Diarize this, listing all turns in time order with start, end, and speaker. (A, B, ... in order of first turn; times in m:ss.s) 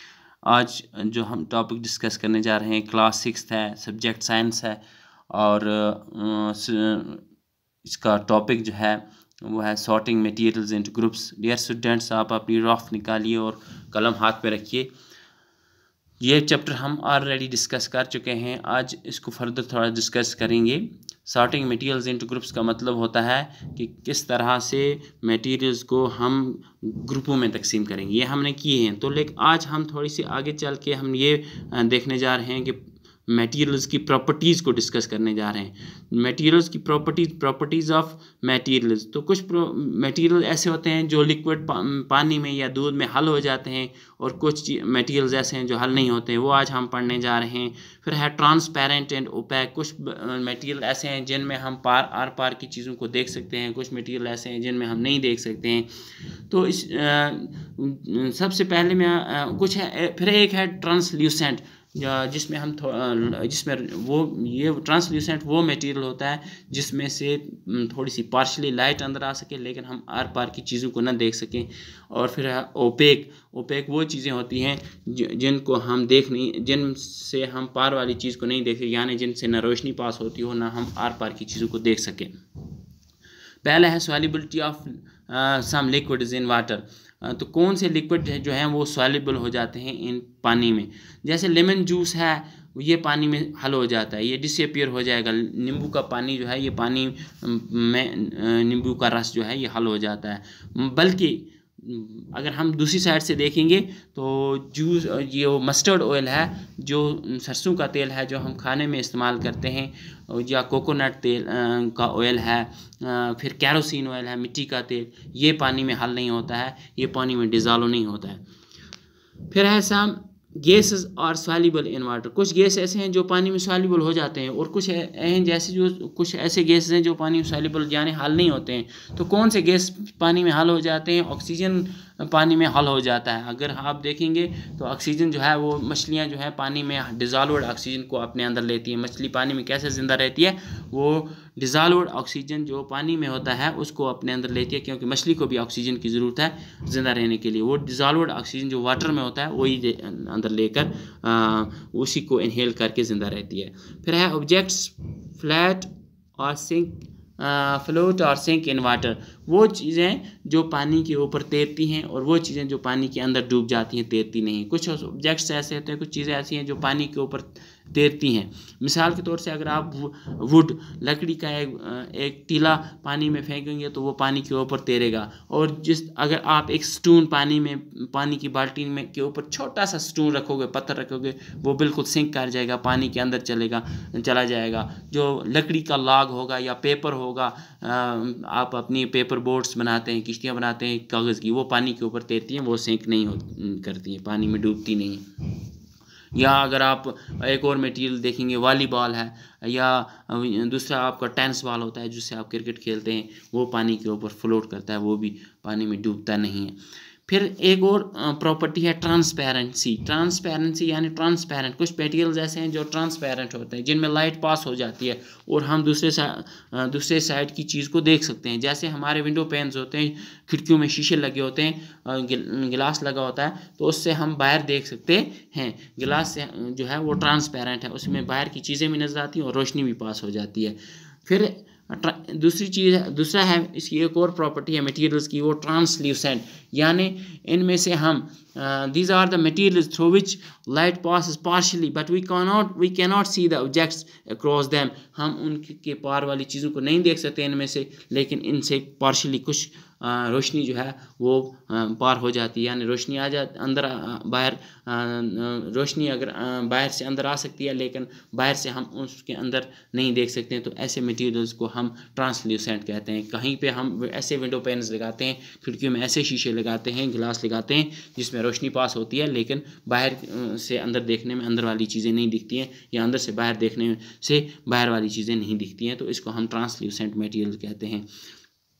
0:00.4-0:07.2 A
0:07.8-0:14.9 A
0:16.2-0:32.8 A
0:33.3-0:55.9 A
0:56.5-1:22.3 A
1:23.6-1:58.4 A
1:59.5-3:15.6 A
3:16.3-3:26.8 A
3:27.3-4:38.0 A